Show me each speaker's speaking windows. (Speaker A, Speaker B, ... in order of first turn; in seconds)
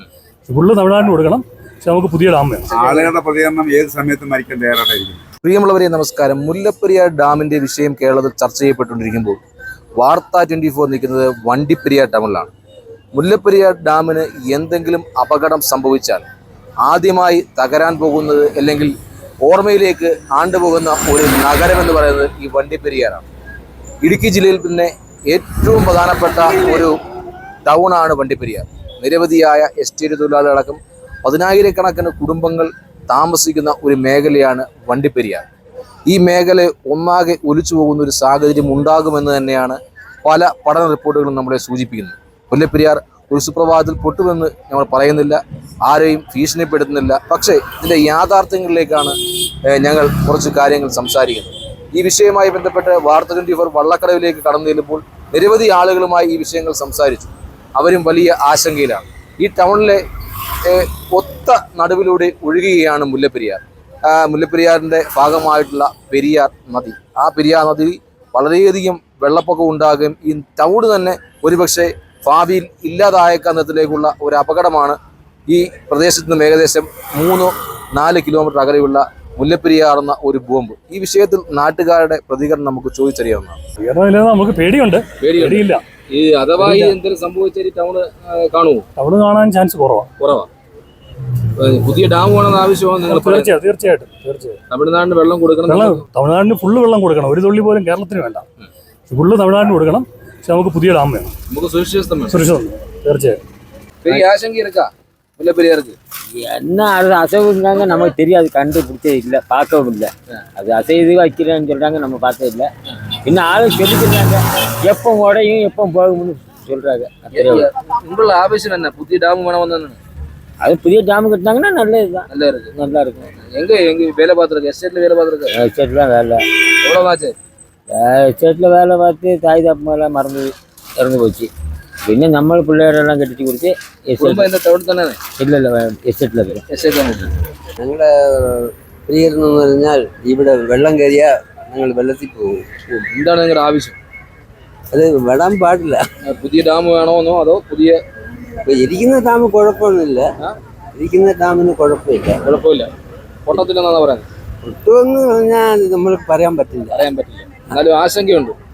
Speaker A: 0.5-2.6, 83.8-85.8, 86.6-87.0, 89.0-90.1, 93.0-94.6, 95.7-98.4, 99.1-101.3, 102.3-103.4
Speaker B: 2.7-3.1, 5.4-9.4, 10.0-12.5, 13.1-16.3, 16.8-23.2, 24.0-26.9, 27.6-35.4, 36.1-49.1, 49.7-60.0, 60.6-75.0, 75.5-83.6, 85.2-88.8, 90.2-90.5, 91.6-93.5, 94.7-96.0, 101.5-102.4, 104.0-106.0, 117.3-120.0, 122.3-122.7, 123.4-125.5, 126.8-127.3, 134.2-135.2, 136.7-137.3, 142.9-144.0, 146.2-148.0, 152.4-152.9, 153.4-154.2, 156.9-158.6
Speaker C: 2.7-5.2
Speaker D: 106.4-112.7, 113.2-117.7, 120.6-122.2, 122.8-123.2, 125.6-126.4, 127.9-131.5, 132.1-134.5, 135.4-136.6
Speaker E: 137.8-142.6, 144.9-146.0, 148.7-150.2, 150.9-152.4, 154.6-157.0